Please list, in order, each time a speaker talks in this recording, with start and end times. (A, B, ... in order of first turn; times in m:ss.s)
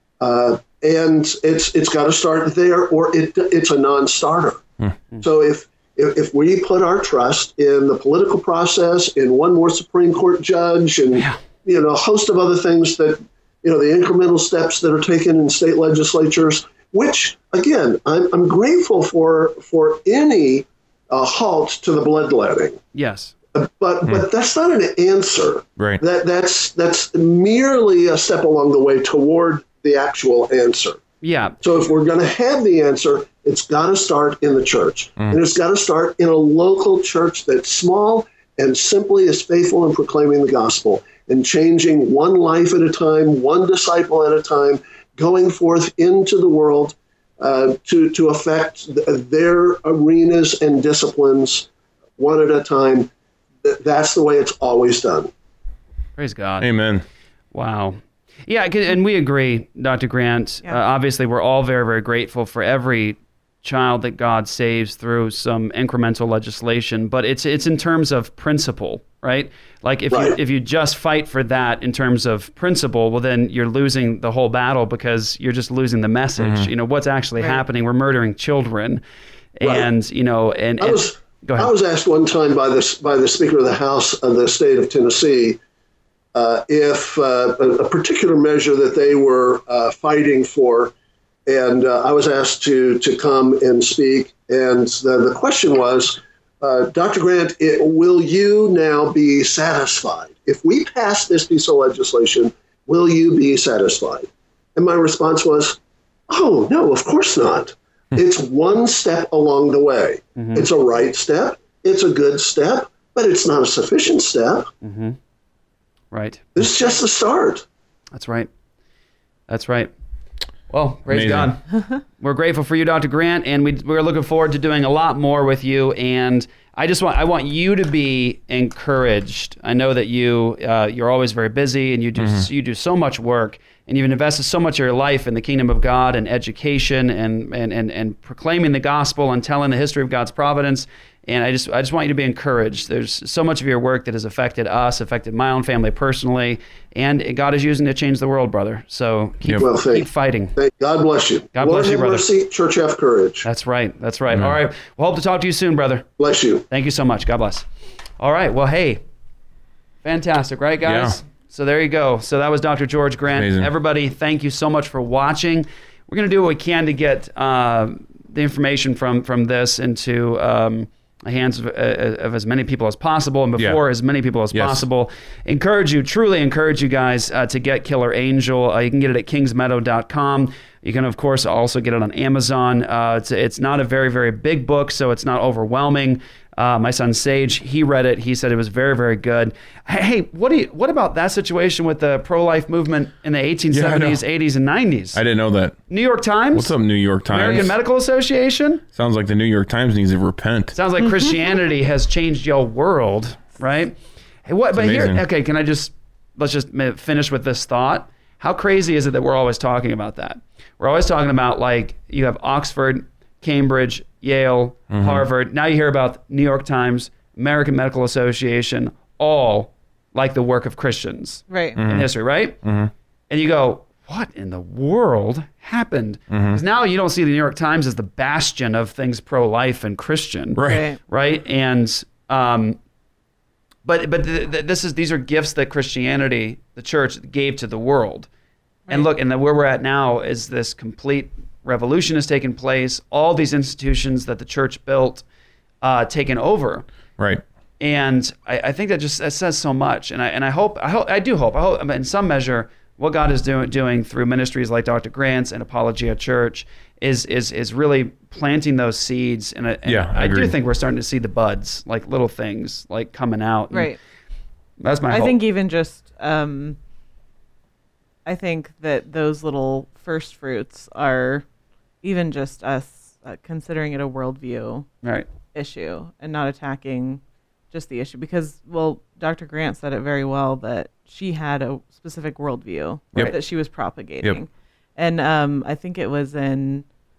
0:00.2-0:04.6 A
0:05.2-0:22.8 A
0:22.9-0:23.3 B
0:23.5-0:31.0 A
0:31.2-0:31.6 B
0:31.6-0:53.1 A
0:53.6-0:55.3 A
0:56.2-0:56.7 B
0:56.6-0:57.0 C
0:57.5-1:19.0 B
1:10.1-1:10.4 A
1:16.4-1:16.7 C
1:19.6-1:21.7 B
1:20.8-1:25.6 A
1:26.3-1:30.9 A
1:31.5-1:45.8 A
1:46.3-1:54.7 A
1:50.4-1:50.7 B
1:54.8-1:55.2 B
1:56.1-1:56.4 B
1:56.6-1:57.7 A
1:58.1-1:58.5 B
1:59.5-1:59.9 B
2:00.7-2:30.6 B
2:01.1-2:01.5 C
2:12.2-2:12.5 C
2:29.6-2:33.5 A
2:31.6-2:32.3 B
2:33.4-2:36.1 B
2:34.3-2:34.6 C
2:36.2-2:36.6 A
2:36.7-2:37.7 B
2:38.2-2:39.0 B
2:40.0-3:15.2 B
2:40.8-2:41.2 C
2:43.3-2:43.7 C
2:54.5-2:54.9 C
3:13.7-3:14.2 C
3:15.2-3:15.8 C
3:15.9-3:16.7 B
3:16.5-3:17.7 C
3:17.3-3:18.8 B
3:18.9-3:20.8 C
3:20.7-3:42.6 B
3:24.8-3:25.2 C
3:34.9-3:35.2 C
3:41.5-3:41.8 D
3:41.8-3:42.1 C
3:42.6-3:42.9 C
3:43.3-3:52.8 B
3:46.3-3:46.6 C
3:50.6-3:50.8 C
3:50.6-3:51.0 D
3:53.8-3:58.3 B
3:58.9-4:05.3 B
4:05.8-4:06.9 B
4:07.8-4:23.9 B
4:19.8-4:20.6 C
4:23.7-4:24.0 D
4:24.8-4:25.4 B
4:25.1-4:26.8 D
4:28.2-4:31.4 D
4:32.0-4:34.9 D
4:35.0-4:35.3 B
4:35.5-4:37.2 D
4:37.7-4:46.9 D